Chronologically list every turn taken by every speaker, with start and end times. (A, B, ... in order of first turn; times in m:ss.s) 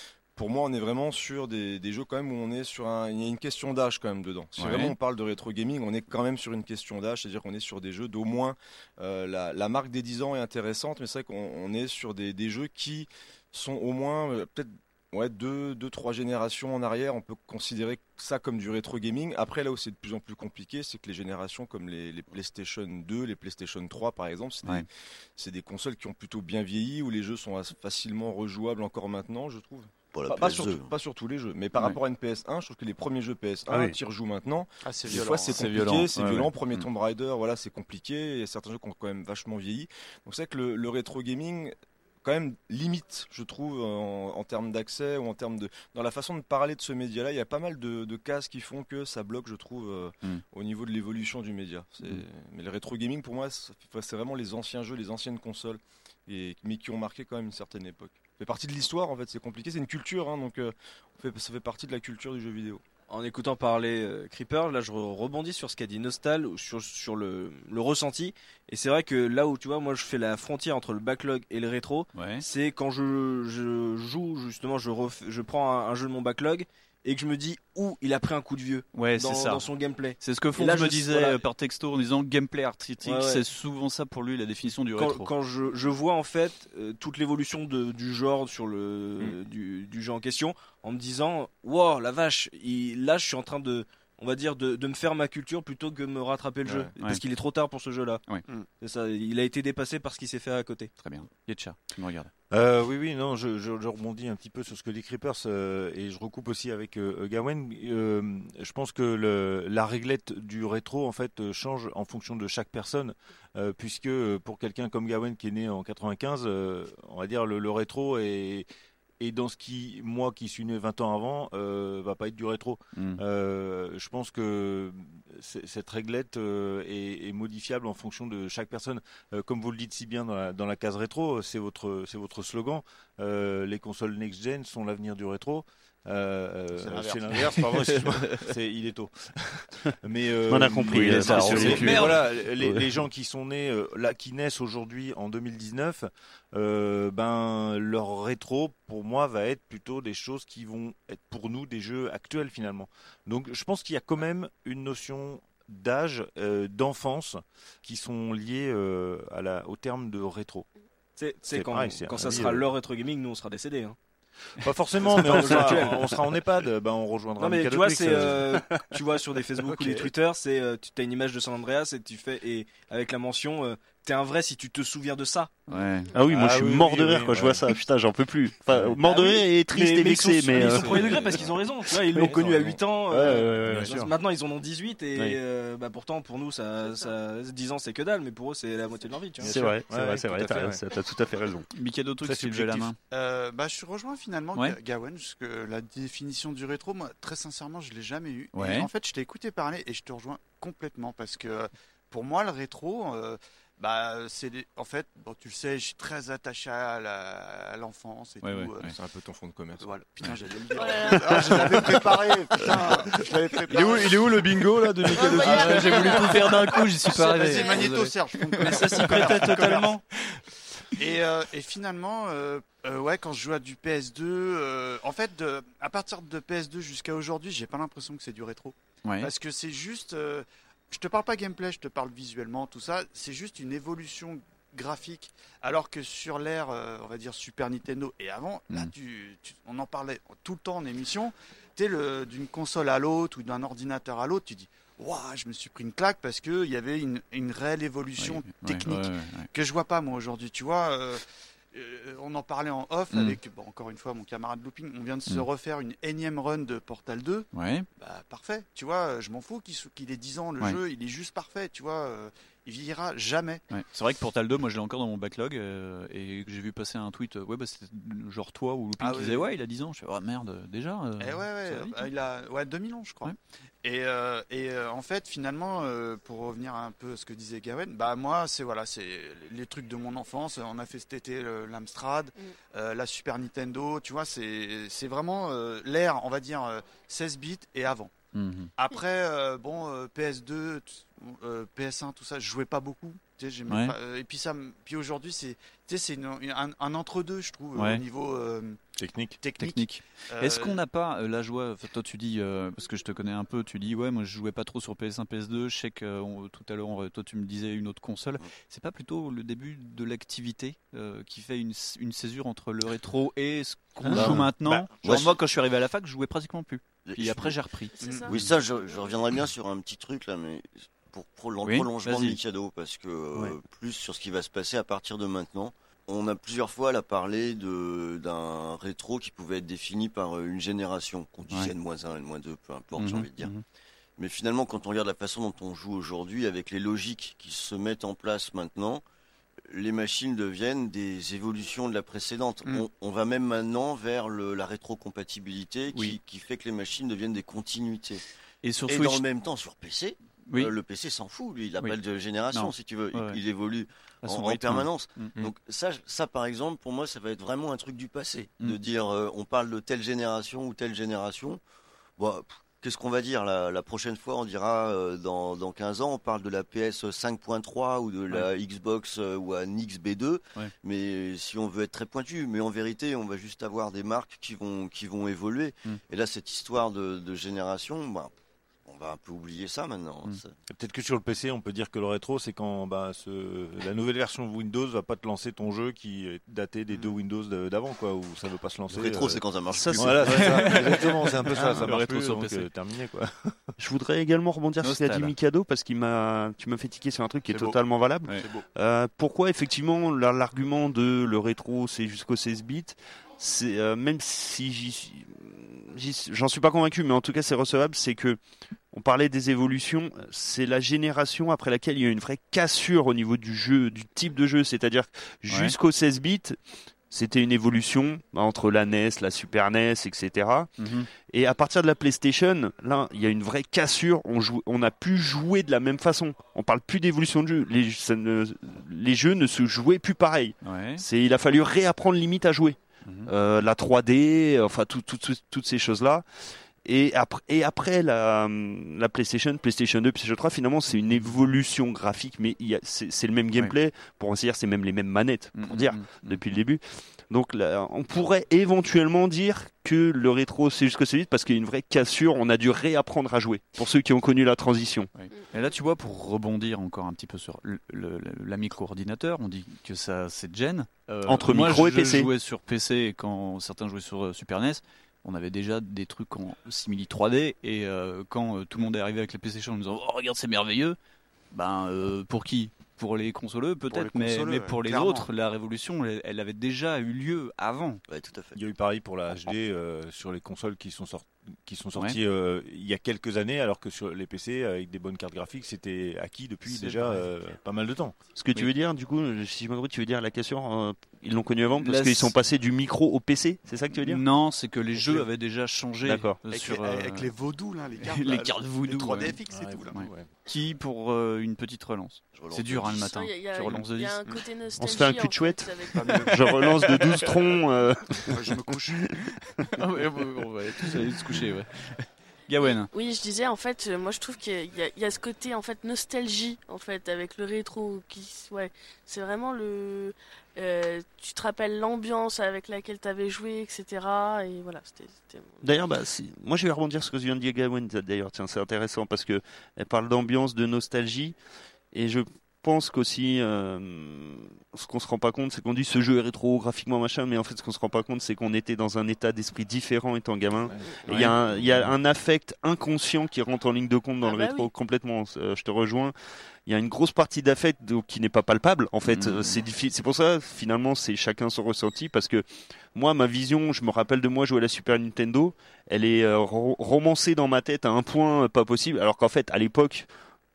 0:00.4-1:02.8 A
0:04.6-0:04.9 B
0:30.1-0:30.9 C
0:34.8-0:35.7 D
0:35.1-0:36.8 B
1:03.1-1:21.4 E
1:12.1-1:12.4 B
1:18.9-1:19.7 B
1:20.2-1:25.3 B
1:23.0-1:23.4 E
1:25.0-1:38.2 E
1:37.0-1:37.2 B
1:38.8-1:40.9 E
1:41.0-1:42.3 B
1:42.5-1:58.7 F
1:59.2-2:40.7 F
2:02.9-2:03.2 B
2:16.8-2:17.8 D
2:20.5-2:22.8 G
2:20.9-2:22.4 B
2:41.2-2:44.0 E
2:41.5-2:42.7 F
2:44.6-2:49.0 F
2:45.0-2:46.2 E
2:47.4-2:55.7 E
2:49.6-2:50.1 F
2:55.7-2:56.1 B
2:56.1-3:01.4 G
2:56.2-2:57.7 F
2:58.7-2:59.0 F
2:59.0-3:09.5 E
3:00.5-3:01.1 F
3:02.1-3:04.1 F
3:02.2-3:02.8 A
3:09.4-3:10.8 F
3:09.4-3:11.7 G
3:11.7-3:13.0 B
3:12.2-3:12.9 F
3:13.1-3:28.9 D
3:18.5-3:18.9 B
3:28.4-3:28.9 B
3:28.8-3:36.7 A
3:29.8-3:34.3 D
3:30.7-3:31.4 H
3:35.1-3:36.5 H
3:35.2-3:40.0 B
3:35.3-3:40.0 D
3:37.3-3:37.8 H
3:41.0-4:23.6 D
3:49.0-3:49.3 B
4:08.2-4:09.5 B
4:13.1-4:13.4 B
4:17.5-4:17.9 B
4:23.7-4:32.1 B
4:29.0-4:29.5 D
4:31.2-4:48.1 D
4:48.3-4:48.7 B
4:48.8-4:58.8 D
4:53.7-4:54.0 B
4:57.7-4:58.0 B
4:59.0-4:59.4 F
4:59.4-5:00.8 D
4:59.6-5:18.4 B
5:14.0-5:14.8 F
5:14.1-5:14.4 C
5:15.0-5:15.4 C
5:17.0-5:17.6 C
5:18.0-5:19.1 H
5:18.0-5:18.3 D
5:18.3-5:33.5 C
5:21.6-5:22.4 B
5:33.0-5:33.6 B
5:34.2-5:39.0 C
5:39.7-5:48.2 C
5:48.6-5:49.2 B
5:48.9-6:01.6 C
5:50.5-5:50.7 B
5:52.5-5:53.4 B
5:54.2-5:55.4 B
6:02.2-6:18.3 C
6:18.9-6:20.5 C
6:20.7-6:33.5 F
6:28.9-6:31.0 C
6:30.0-6:32.7 B
6:33.8-6:48.4 G
6:34.8-6:35.3 B
6:37.5-6:37.8 D
6:48.9-6:56.6 G
6:55.5-6:55.7 B
6:57.1-7:16.2 G
7:00.8-7:01.1 B
7:10.6-7:11.0 B
7:13.0-7:13.3 B
7:16.8-7:35.1 G
7:25.6-7:26.6 B
7:35.2-7:51.0 B
7:41.2-7:42.3 G
7:51.5-7:58.0 B
7:53.9-7:55.3 D
7:58.1-7:58.6 C
7:58.5-8:08.2 F
8:01.9-8:02.2 B
8:06.6-8:07.2 B
8:08.3-8:14.2 G
8:11.8-8:12.3 B
8:13.9-8:17.3 B
8:14.9-8:15.3 D
8:16.0-8:16.4 G
8:16.4-8:20.0 D
8:18.0-8:19.4 B
8:19.5-8:20.3 F
8:19.9-8:24.2 B
8:22.3-8:23.2 C
8:23.1-8:26.2 H
8:24.8-8:29.6 G
8:25.9-8:27.5 D
8:28.2-8:29.1 D
8:29.8-8:32.9 B
8:32.6-8:45.7 H
8:45.6-8:51.3 G
8:51.9-9:06.1 G
9:01.1-9:01.9 F
9:04.2-9:04.7 H
9:06.6-9:20.1 G
9:09.0-9:09.6 B